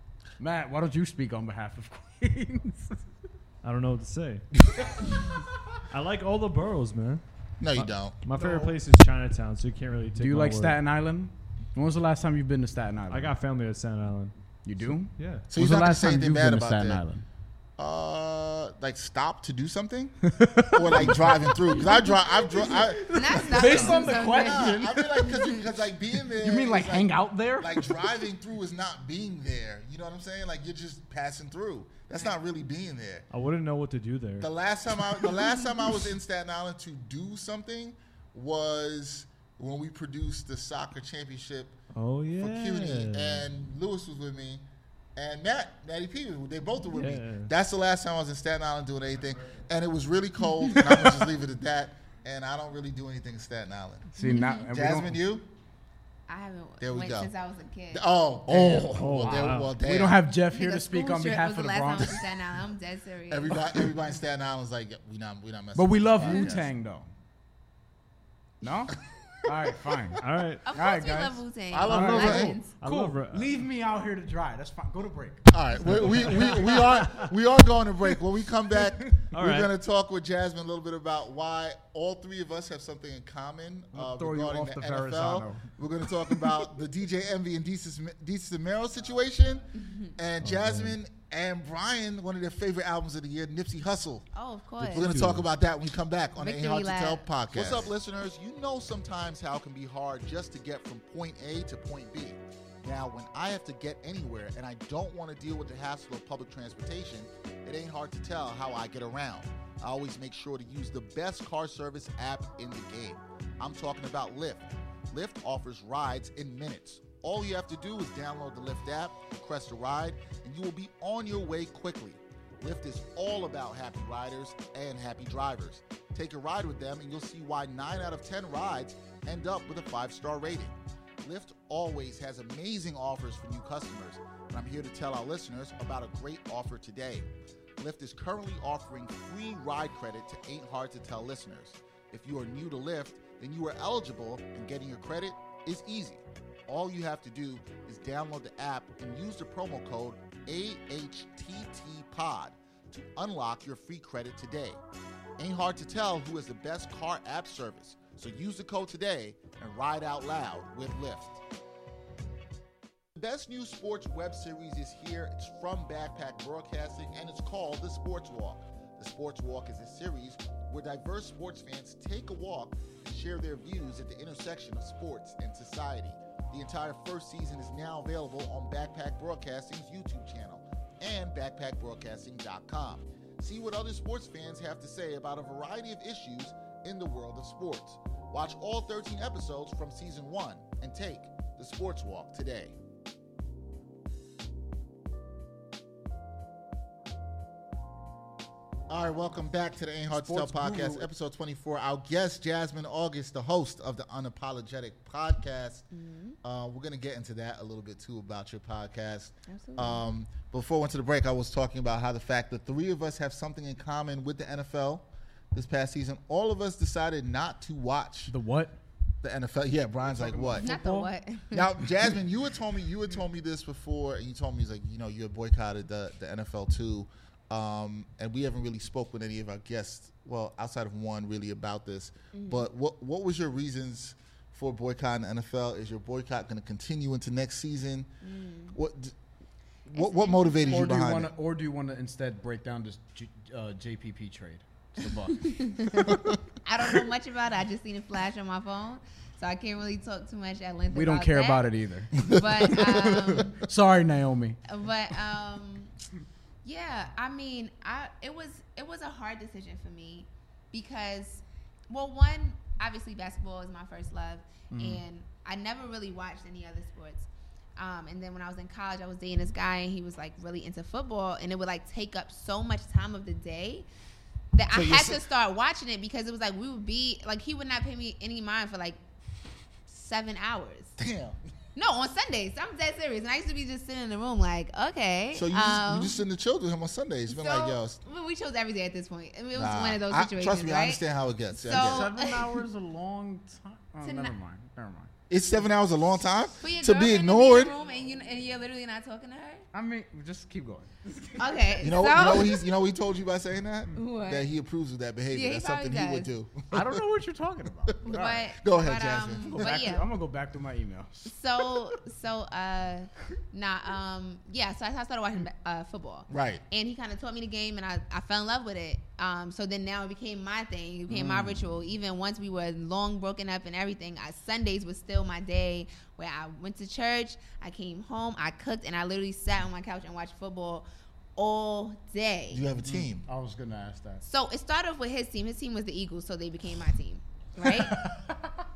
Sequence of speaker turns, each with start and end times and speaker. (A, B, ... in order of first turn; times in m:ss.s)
0:00.4-0:03.0 A
0:03.6-0:04.5 B
0:05.9-0:10.8 B
0:07.6-0:08.2 C
0:08.4-0:08.7 A
0:10.2-0:13.3 A
0:13.1-0:15.4 B
0:14.6-0:17.2 A
0:15.5-0:17.0 C
0:17.8-0:33.2 C
0:20.3-0:25.3 A
0:23.1-0:25.6 D
0:23.6-0:24.2 B
0:26.2-0:28.2 A
0:33.3-0:34.5 B
0:34.4-0:41.8 C
0:41.9-0:43.4 B
0:42.3-0:44.6 C
0:45.2-0:55.5 C
0:46.9-0:47.5 B
0:54.1-0:55.2 A
0:54.2-0:54.6 D
0:56.3-0:58.1 D
0:56.8-0:57.3 C
0:57.9-1:00.2 C
0:58.5-1:02.3 A
0:58.9-0:59.8 B
1:00.5-1:03.5 D
1:03.3-1:06.7 C
1:05.7-1:07.1 A
1:08.6-1:10.2 A
1:10.2-1:10.7 B
1:10.6-1:12.7 D
1:10.7-1:17.0 A
1:11.7-1:12.6 C
1:11.9-1:13.5 B
1:15.5-1:34.3 C
1:15.9-1:17.2 B
1:19.3-1:19.7 B
1:23.9-1:25.7 A
1:26.2-1:26.6 A
1:29.7-1:30.1 D
1:30.4-1:31.0 B
1:34.3-1:35.1 D
1:34.9-2:34.8 C
1:35.0-1:35.4 B
1:36.4-1:37.3 D
2:35.4-2:41.4 C
2:43.1-3:12.8 C
3:18.9-3:25.8 C
3:20.1-3:21.1 A
3:25.9-3:26.4 D
3:26.4-3:38.3 C
3:29.5-3:30.0 D
3:38.3-3:38.8 A
3:39.2-3:40.7 C
3:40.0-3:41.1 A
3:40.6-3:41.7 D
3:41.5-3:58.1 C
3:52.3-3:52.7 D
3:58.2-3:58.8 D
3:58.7-3:59.1 C
3:59.9-4:01.3 C
3:59.9-4:00.7 D
4:00.7-4:06.4 A
4:05.4-4:06.1 D
4:06.1-4:06.4 C
4:06.6-4:11.6 D
4:10.9-4:12.2 A
4:12.2-4:13.6 D
4:12.2-4:13.4 C
4:13.1-4:14.6 A
4:14.7-4:15.9 D
4:16.6-4:33.8 D
4:24.7-4:25.0 A
4:34.5-4:39.0 D
4:34.7-4:35.2 C
4:39.9-4:41.0 D
4:41.0-4:41.4 C
4:41.8-4:46.2 D
4:45.3-4:48.0 C
4:47.3-4:51.0 D
4:49.5-4:52.1 C
4:51.6-4:52.5 D
4:51.7-4:55.1 A
4:54.0-4:54.3 D
4:55.3-4:57.7 C
4:56.6-4:59.6 D
4:59.7-5:01.8 A
5:01.4-5:02.6 D
5:01.8-5:07.0 C
5:03.9-5:04.5 D
5:05.3-5:06.3 D
5:06.7-5:08.5 A
5:07.9-5:09.8 C
5:08.0-5:10.0 D
5:09.5-5:11.7 A
5:11.2-5:30.8 D
5:16.3-5:16.6 C
5:21.1-5:21.7 A
5:31.4-5:32.6 D
5:32.5-5:33.2 C
5:32.8-5:34.2 A
5:34.2-5:38.0 D
5:37.6-5:38.4 A